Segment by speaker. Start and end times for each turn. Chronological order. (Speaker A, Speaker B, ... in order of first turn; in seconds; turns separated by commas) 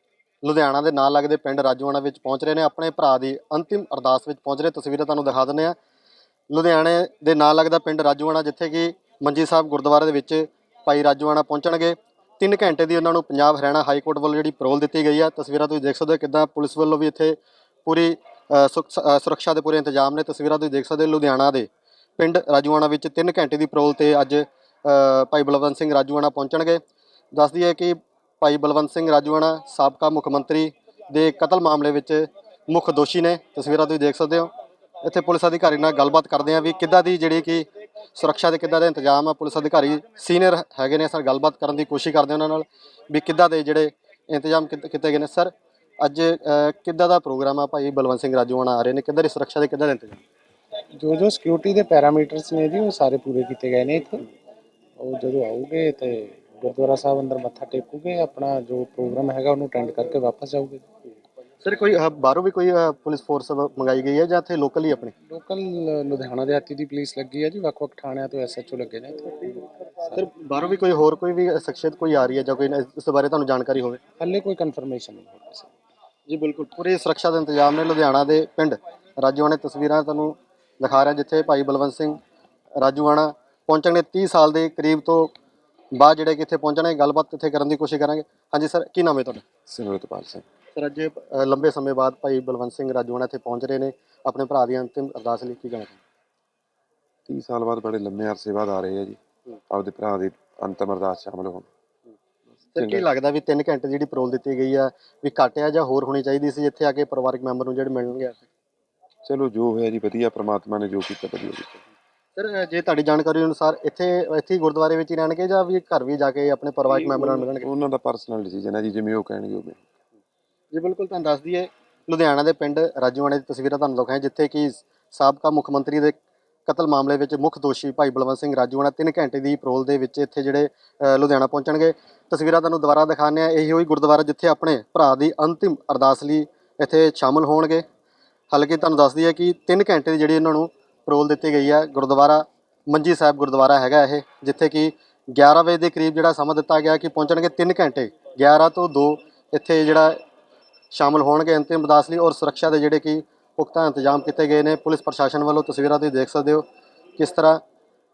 Speaker A: 0.4-5.8, Speaker A: 6.5-26.8, Speaker A: 27.3-34.5, Speaker A: 35.0-50.2, Speaker B: 51.0-54.3, Speaker B: 55.0-60.8, Speaker A: 61.6-65.1, Speaker B: 65.3-70.2, Speaker A: 70.1-74.0, Speaker B: 74.2-75.7, Speaker A: 76.3-82.2, Speaker A: 82.8-85.3, Speaker A: 85.9-89.4, Speaker C: 89.7-90.4, Speaker A: 90.7-96.0, Speaker C: 97.3-99.2, Speaker C: 99.7-101.7, Speaker A: 102.7-108.4, Speaker C: 102.8-103.0, Speaker C: 109.2-111.8, Speaker A: 112.3-117.7, Speaker C: 117.0-119.8, Speaker A: 120.7-137.8, Speaker A: 138.5-150.2, Speaker A: 150.9-156.6, Speaker A: 157.2-157.6